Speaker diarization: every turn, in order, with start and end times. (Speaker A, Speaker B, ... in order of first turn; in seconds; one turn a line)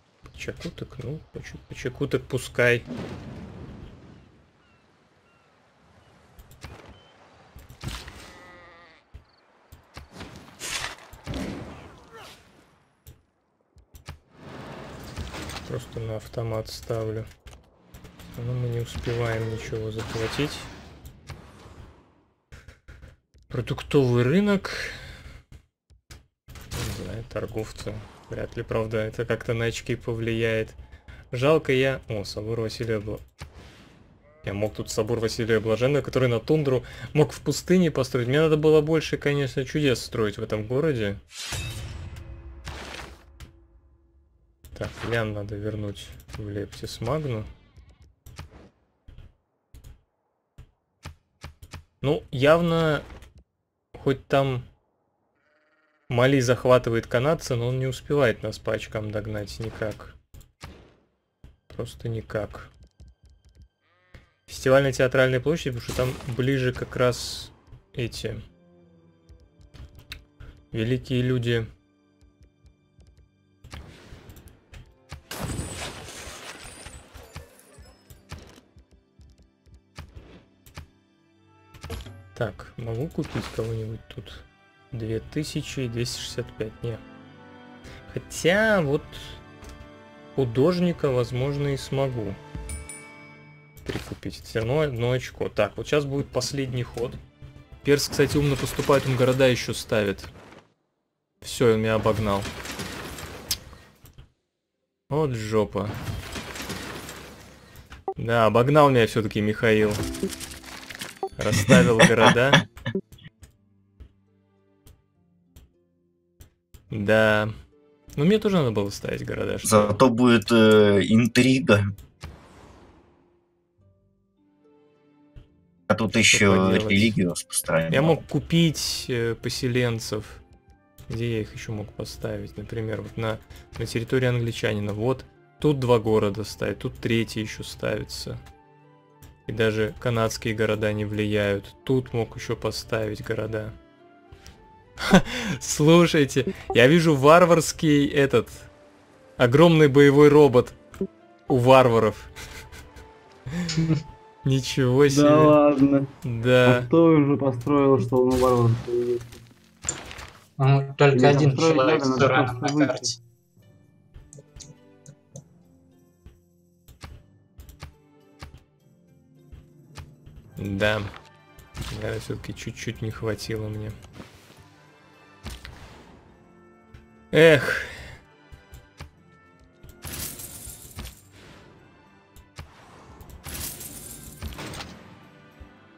Speaker A: 0.2-2.9
Speaker A: 15.7-17.3
Speaker A: 18.4-20.7
Speaker A: 23.5-25.0
Speaker A: 26.7-30.8
Speaker A: 31.3-33.2
Speaker A: 34.4-41.2
Speaker A: 44.7-47.5
Speaker A: 52.0-53.0
Speaker A: 54.0-54.7
Speaker A: 56.1-60.2
Speaker A: 61.7-62.7
Speaker A: 64.5-68.4
Speaker A: 70.7-71.7
Speaker A: 82.3-87.0
Speaker A: 88.1-89.4
Speaker A: 90.4-92.4
Speaker A: 93.8-97.2
Speaker A: 97.8-100.3
Speaker A: 101.4-102.5
Speaker A: 105.1-106.0
Speaker A: 108.2-110.0
Speaker A: 111.4-112.6
Speaker A: 116.9-117.5
Speaker A: 118.2-120.0
Speaker B: 119.6-121.9
Speaker B: 125.9-128.2
Speaker A: 126.3-127.2
Speaker A: 127.9-130.4
Speaker A: 131.1-138.4
Speaker A: 139.5-143.7
Speaker A: 145.0-148.7
Speaker A: 149.4-150.8
Speaker A: 151.5-152.3
Speaker A: 154.4-155.6
Speaker C: 155.1-159.4
Speaker A: 156.2-156.9
Speaker D: 160.6-163.1
Speaker C: 161.1-163.1
Speaker A: 170.6-171.1
Speaker A: 171.9-173.9
Speaker A: 177.3-178.1